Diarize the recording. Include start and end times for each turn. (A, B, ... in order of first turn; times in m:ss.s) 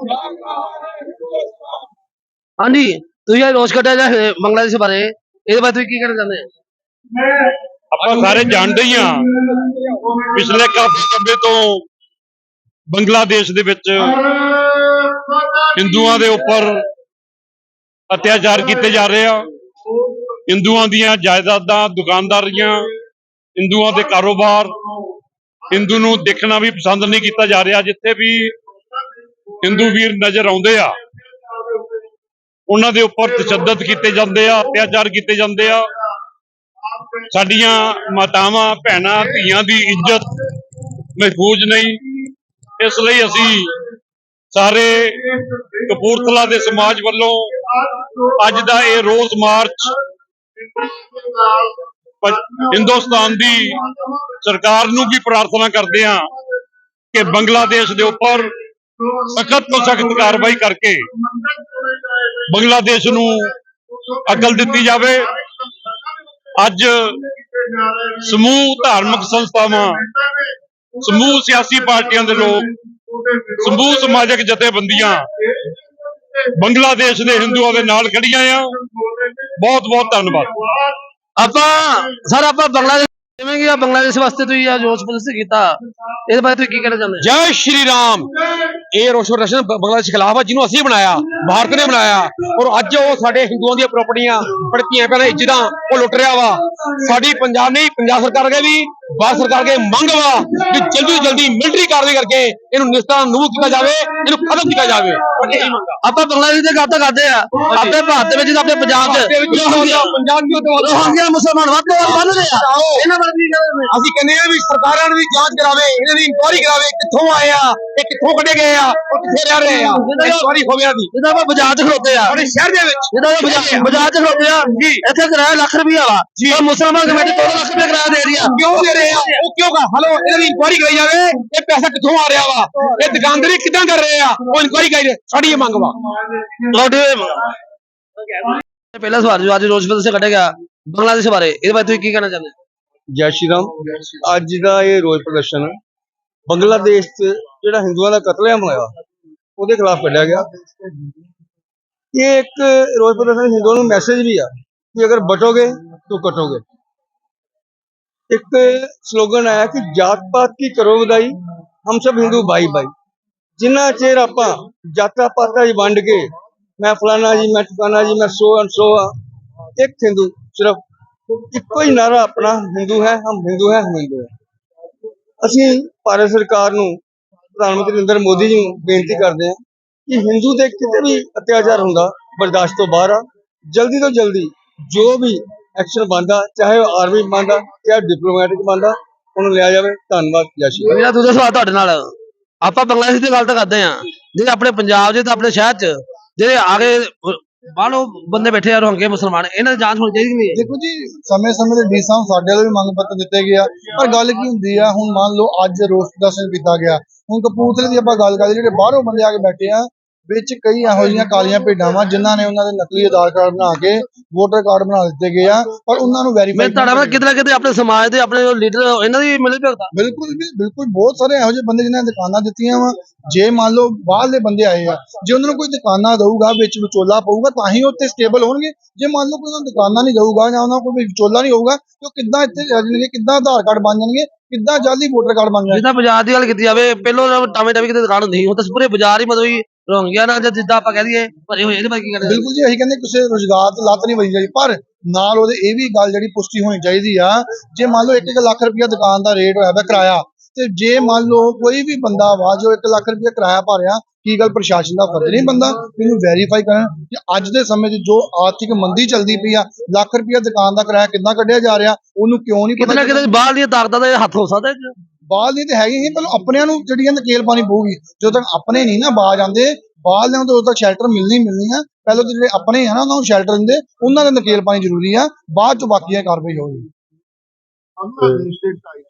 0:02.6-0:06.5 A
0:07.9-0:09.3 B
0:10.2-0:11.8 B
0:12.9-0:14.2 B
0:15.7-0:16.8 B
0:18.1-0:19.5 B
0:20.5-0:22.9 B
0:23.6-0:24.8 B
0:25.7-0:28.5 B
0:29.6-0:31.0 B
0:32.7-0:35.9 B
0:37.3-0:40.4 B
0:41.2-0:42.0 B
0:42.8-0:43.8 B
0:44.5-0:45.3 B
0:45.8-0:47.5 B
0:48.2-0:50.0 B
0:52.2-0:53.8 B
0:54.4-0:56.3 B
0:57.1-0:58.5 B
0:59.2-1:01.1 B
1:02.5-1:03.5 B
1:04.2-1:05.3 B
1:06.6-1:07.2 B
1:08.1-1:10.0 B
1:11.0-1:12.7 B
1:13.5-1:15.3 B
1:16.6-1:18.8 B
1:19.6-1:20.7 B
1:21.4-1:27.3 A
1:27.2-1:46.0 C
1:45.4-1:50.1 A
1:47.7-1:48.0 C
1:48.9-1:51.2 C
1:50.8-1:53.9 A
1:52.1-1:53.0 C
1:53.9-2:01.1 C
2:00.0-2:00.5 A
2:01.1-2:02.4 A
2:02.3-2:03.9 C
2:03.1-2:08.5 A
2:04.7-2:05.0 C
2:06.4-2:06.6 C
2:08.4-2:16.0 C
2:16.6-2:17.5 A
2:18.9-2:22.5 A
2:23.1-2:25.7 D
2:26.5-2:28.9 D
2:29.6-2:30.5 D
2:32.1-2:36.6 D
2:38.3-2:42.9 D
2:43.6-2:49.1 D
2:49.8-2:50.8 D
2:51.5-2:54.3 D
2:55.4-2:57.0 D
2:57.5-3:10.9 D
3:10.8-3:12.1 A
3:12.6-3:20.6 A
3:20.5-3:37.2 E
3:36.5-3:39.9 A
3:39.9-3:55.8 E
3:55.7-4:02.4 A
4:02.2-4:23.3 E
4:22.8-4:24.9 A
4:25.3-4:36.9 E